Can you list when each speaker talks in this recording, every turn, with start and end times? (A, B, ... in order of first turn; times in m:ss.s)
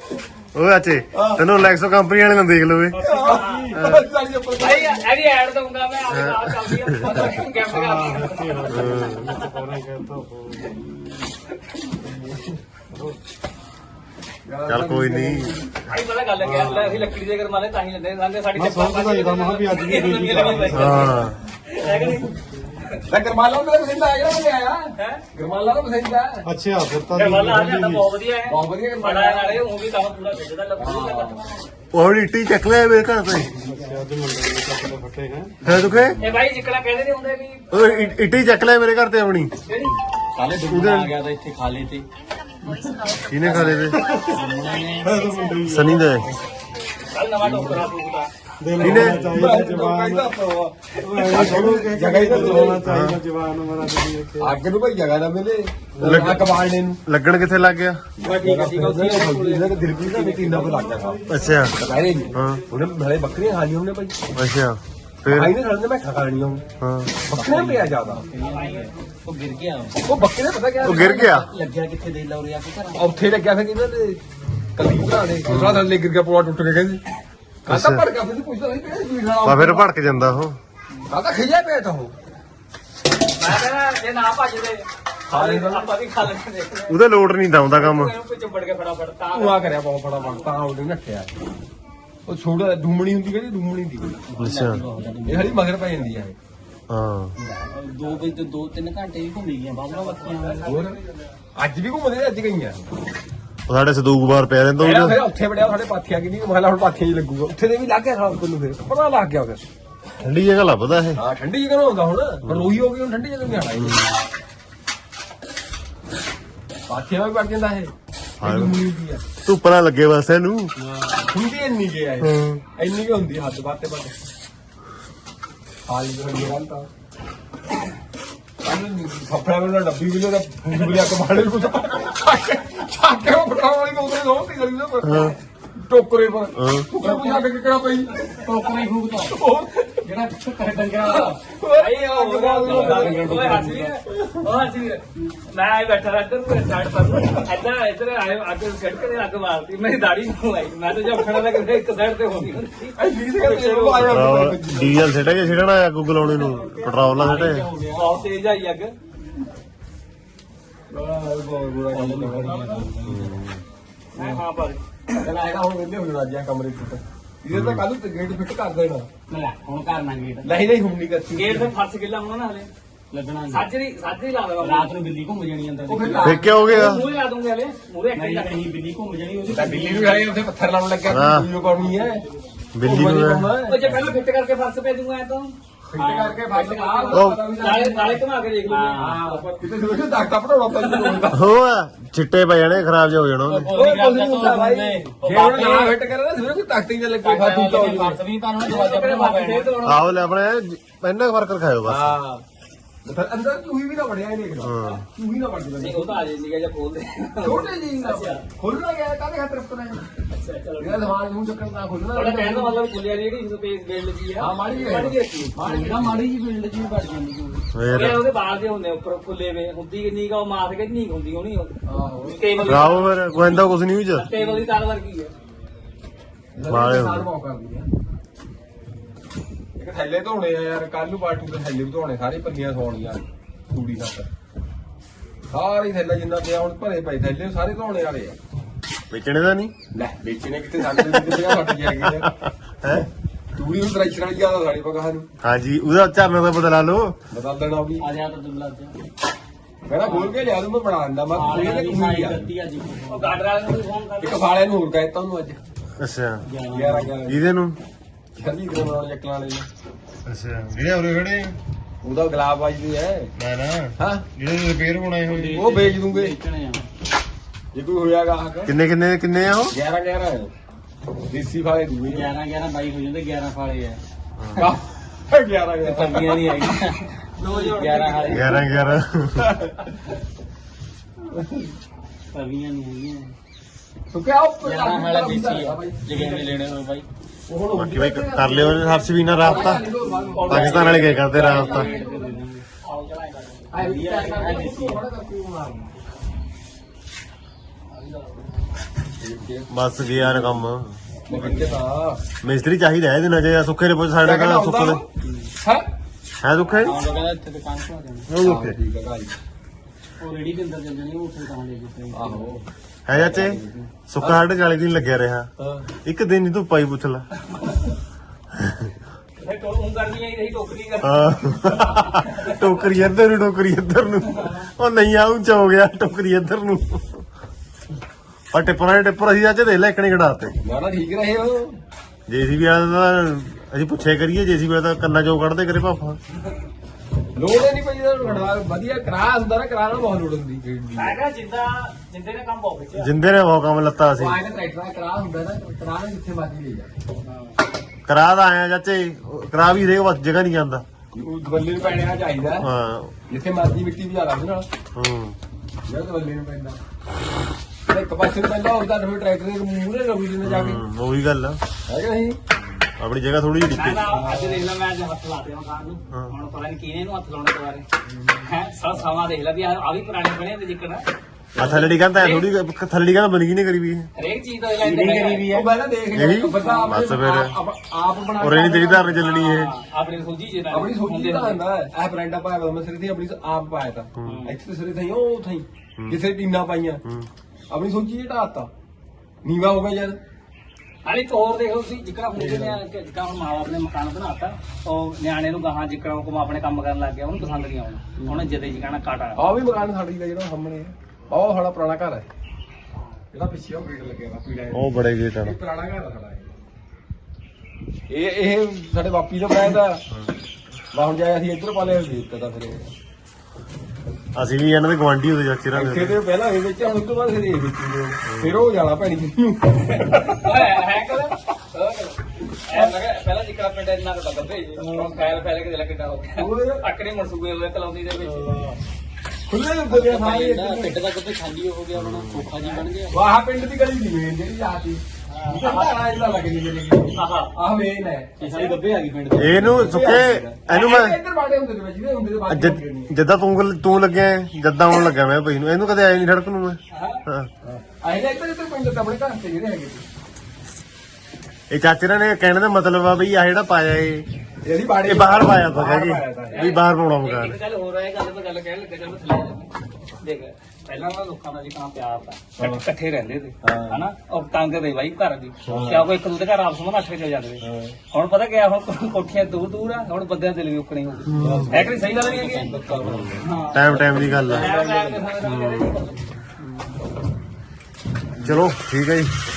0:00.5-0:03.0 A
0:01.1-0:01.5 B
0:02.9-0:05.0 B
0:03.0-0:03.7 C
0:03.8-0:04.0 A
0:04.6-0:09.6 C
0:06.1-0:07.3 A
0:07.7-0:10.7 D
0:08.7-0:09.3 A
0:11.9-0:12.5 B
0:14.4-0:15.6 B
0:14.6-0:15.6 A
0:15.9-0:21.1 C
0:16.5-0:16.8 E
0:18.5-0:21.1 D
0:20.5-0:21.1 B
0:20.7-0:21.4 A
0:21.7-0:23.0 C
0:21.8-0:22.2 B
0:23.1-0:26.5 B
0:25.0-0:25.2 C
0:26.4-0:28.0 D
0:27.1-0:31.7 C
0:28.4-0:29.6 B
0:30.8-0:31.4 B
0:31.9-0:33.5 A
0:33.6-0:36.1 D
0:35.6-0:36.3 A
0:36.2-0:38.2 C
0:37.7-0:39.5 A
0:39.6-0:39.9 C
0:40.3-0:42.0 E
0:40.7-0:41.1 A
0:42.7-0:45.4 E
0:43.2-0:44.0 A
0:43.9-0:44.4 D
0:45.0-0:46.3 D
0:45.6-0:46.3 A
0:47.1-0:48.3 C
0:47.4-0:47.9 D
0:48.6-0:50.3 D
0:48.8-0:49.3 A
0:48.8-0:52.8 B
0:51.0-0:54.6 D
0:52.7-0:53.2 A
0:54.4-0:57.0 B
0:56.0-0:56.3 D
0:56.0-0:56.5 A
0:57.0-0:58.0 A
0:58.2-1:04.2 B
0:58.2-1:01.0 E
1:01.3-1:01.8 A
1:02.3-1:02.6 A
1:04.3-1:05.5 A
1:05.3-1:06.6 B
1:06.8-1:07.1 A
1:07.2-1:08.2 B
1:07.3-1:10.1 E
1:08.4-1:08.9 C
1:10.0-1:11.3 B
1:10.8-1:11.5 A
1:10.8-1:13.0 E
1:13.0-1:14.2 B
1:14.7-1:17.0 B
1:15.5-1:15.9 A
1:17.6-1:19.9 B
1:17.7-1:18.0 A
1:19.4-1:20.6 A
1:21.1-1:22.1 B
1:23.4-1:27.0 C
1:25.3-1:25.9 B
1:26.9-1:28.1 A
1:27.7-1:30.5 C
1:29.3-1:31.3 B
1:32.2-1:34.2 B
1:34.3-1:35.6 E
1:34.4-1:34.8 A
1:35.2-1:36.4 B
1:36.9-1:37.3 A
1:37.4-1:40.8 E
1:39.9-1:41.2 C
1:40.6-1:41.0 B
1:41.5-1:42.9 B
1:43.7-1:45.2 A
1:44.8-1:49.6 B
1:50.2-1:51.2 A
1:51.2-1:54.0 B
1:52.4-1:52.7 A
1:56.9-1:59.2 B
1:58.4-1:58.8 A
1:59.4-2:00.7 A
2:00.8-2:04.1 B
2:02.2-2:02.6 A
2:05.8-2:06.9 B
2:08.6-2:18.2 B
2:15.0-2:15.3 A
2:16.6-2:16.9 A
2:17.0-2:17.4 E
2:17.0-2:17.4 C
2:18.3-2:19.4 E
2:19.3-2:19.9 B
2:20.0-2:21.4 E
2:21.0-2:34.2 C
2:21.5-2:24.2 B
2:22.6-2:23.6 E
2:33.0-2:35.4 B
2:34.0-2:37.7 A
2:36.3-2:38.2 E
2:37.9-2:38.9 C
2:40.9-2:42.8 B
2:41.9-2:43.3 E
2:43.1-2:43.6 A
2:44.2-2:44.4 B
2:44.2-2:44.8 C
2:45.2-2:49.1 B
2:47.5-2:47.8 A
2:49.3-2:50.5 E
2:50.4-2:51.7 B
2:51.3-2:52.7 C
2:53.1-2:53.7 E
2:53.5-2:54.9 C
2:54.6-2:56.4 E
2:55.9-2:56.9 B
2:56.2-2:57.1 A
2:56.6-2:58.6 C
2:58.1-3:00.3 E
2:59.5-3:02.2 B
3:01.1-3:01.5 A
3:02.7-3:03.5 A
3:02.8-3:03.9 B
3:03.6-3:05.5 C
3:05.9-3:08.2 B
3:06.0-3:06.4 E
3:06.5-3:09.4 C
3:07.1-3:07.4 A
3:08.6-3:09.2 E
3:09.0-3:11.4 B
3:10.7-3:11.3 C
3:11.3-3:13.7 A
3:13.5-3:15.7 E
3:13.7-3:18.2 B
3:15.2-3:15.9 C
3:17.2-3:19.8 E
3:17.3-3:17.7 C
3:18.6-3:20.1 C
3:19.8-3:22.2 A
3:21.8-3:22.4 B
3:23.0-3:26.2 B
3:24.6-3:25.0 A
3:25.8-3:28.4 C
3:27.4-3:30.0 B
3:30.3-3:31.2 C
3:30.8-3:32.8 B
3:32.1-3:35.7 C
3:34.4-3:36.3 B
3:35.6-3:37.6 E
3:37.7-3:38.2 A
3:37.9-3:43.6 C
3:41.8-3:42.8 B
3:42.6-3:44.3 A
3:44.1-3:45.3 C
3:44.4-3:44.6 B
3:46.5-3:47.9 B
3:46.7-3:47.2 A
3:49.8-3:54.3 B
3:55.5-3:58.4 B
3:59.1-3:59.7 A
3:59.9-4:02.3 B
4:01.1-4:01.4 A
4:03.6-4:05.3 B
4:05.4-4:07.2 A
4:07.3-4:08.0 B
4:08.0-4:08.9 E
4:09.8-4:12.5 B
4:10.0-4:10.4 E
4:11.3-4:13.3 E
4:13.1-4:14.5 C
4:14.2-4:15.6 B
4:16.0-4:16.4 A
4:16.4-4:17.1 E
4:16.7-4:17.4 B
4:17.2-4:17.8 A
4:18.4-4:19.6 B
4:20.2-4:21.6 A
4:22.0-4:23.3 B
4:23.4-4:25.6 A
4:24.0-4:24.2 B
4:25.3-4:26.8 E
4:25.5-4:26.3 B
4:27.7-4:28.7 B
4:28.6-4:29.7 A
4:29.7-4:30.5 B
4:31.3-4:32.3 B
4:32.1-4:34.0 E
4:34.4-4:34.7 A
4:34.6-4:36.4 B
4:35.8-4:38.6 E
4:37.4-4:38.6 B
4:38.3-4:39.5 A
4:39.4-4:39.9 B
4:41.3-4:41.7 B
4:42.3-4:43.3 E
4:44.1-4:46.5 B
4:44.6-4:47.0 E
4:47.5-4:52.1 B
4:47.7-4:49.9 A
4:49.4-4:53.8 C
4:50.4-4:51.9 A
4:50.5-4:52.6 E
4:53.7-4:56.0 B
4:53.8-4:55.0 E
4:57.9-4:58.5 C
4:59.2-5:00.7 B
4:59.7-5:01.0 A
5:01.2-5:02.2 B
5:01.3-5:01.8 E
5:02.4-5:05.0 A
5:04.2-5:05.0 B
5:05.2-5:05.5 E
5:05.6-5:05.9 B
5:06.4-5:07.0 A
5:06.8-5:08.3 E
5:08.3-5:08.8 A
5:08.4-5:09.3 B
5:10.2-5:12.5 E
5:12.1-5:12.6 B
5:13.1-5:15.5 A
5:13.1-5:14.4 B
5:15.6-5:15.9 B
5:16.0-5:17.2 A
5:18.6-5:18.9 A
5:19.4-5:22.7 C
5:21.0-5:27.2 A
5:24.3-5:24.6 C
5:28.5-5:30.6 A
5:30.6-5:31.8 B
5:32.3-5:36.2 A
5:37.3-5:41.2 B
5:40.9-5:43.1 C
5:42.9-5:44.4 A
5:44.2-5:46.9 B
5:47.2-5:47.5 C
5:48.1-5:50.8 A
5:51.1-5:52.6 B
5:52.6-5:53.1 A
5:53.3-5:54.7 B
5:54.9-5:55.4 A
5:55.8-5:56.8 B
5:57.9-6:00.8 B
6:00.4-6:01.6 A
6:01.9-6:02.4 B
6:02.8-6:04.1 A
6:03.7-6:07.9 C
6:04.1-6:04.7 B
6:08.4-6:11.1 C
6:11.6-6:12.0 B
6:11.6-6:14.1 A
6:12.1-6:12.5 C
6:14.2-6:15.5 C
6:14.8-6:15.7 E
6:15.5-6:19.2 B
6:16.1-6:17.5 A
6:18.4-6:19.7 A
6:19.2-6:21.6 C
6:20.7-6:27.0 B
6:27.7-6:28.7 B
6:29.4-6:30.2 B
6:31.0-6:39.4 C
6:32.3-6:32.8 B
6:39.4-6:42.2 B
6:43.3-6:44.9 B
6:44.7-6:45.6 A
6:45.4-6:46.5 B
6:48.1-6:50.0 B
6:50.9-6:52.9 B
6:54.3-6:56.2 A
6:55.7-7:00.3 B
6:58.3-6:58.6 A
7:00.0-7:08.5 C
7:02.7-7:03.0 B
7:04.8-7:05.4 B
7:06.3-7:06.8 B
7:08.2-7:08.8 B
7:09.5-7:11.0 B
7:09.9-7:13.2 E
7:11.9-7:12.5 A
7:13.1-7:18.4 B
7:15.3-7:16.0 C
7:17.1-7:17.5 C
7:18.4-7:20.0 E
7:18.5-7:18.7 C
7:19.3-7:21.2 A
7:19.6-7:23.1 B
7:22.5-7:27.5 A
7:26.9-7:27.2 C
7:27.6-7:30.0 B
7:31.7-7:34.2 A
7:34.6-7:36.7 B
7:35.0-7:37.6 A
7:36.5-7:52.6 C
7:43.6-7:44.0 B
7:45.7-7:46.1 B
7:47.6-7:48.0 B
7:51.3-7:51.6 A
7:51.3-7:55.3 B
7:51.4-7:53.3 E
7:53.4-7:56.4 C
7:53.7-7:54.7 A
7:55.4-7:55.9 E
7:58.4-7:58.7 B
7:58.4-7:59.3 A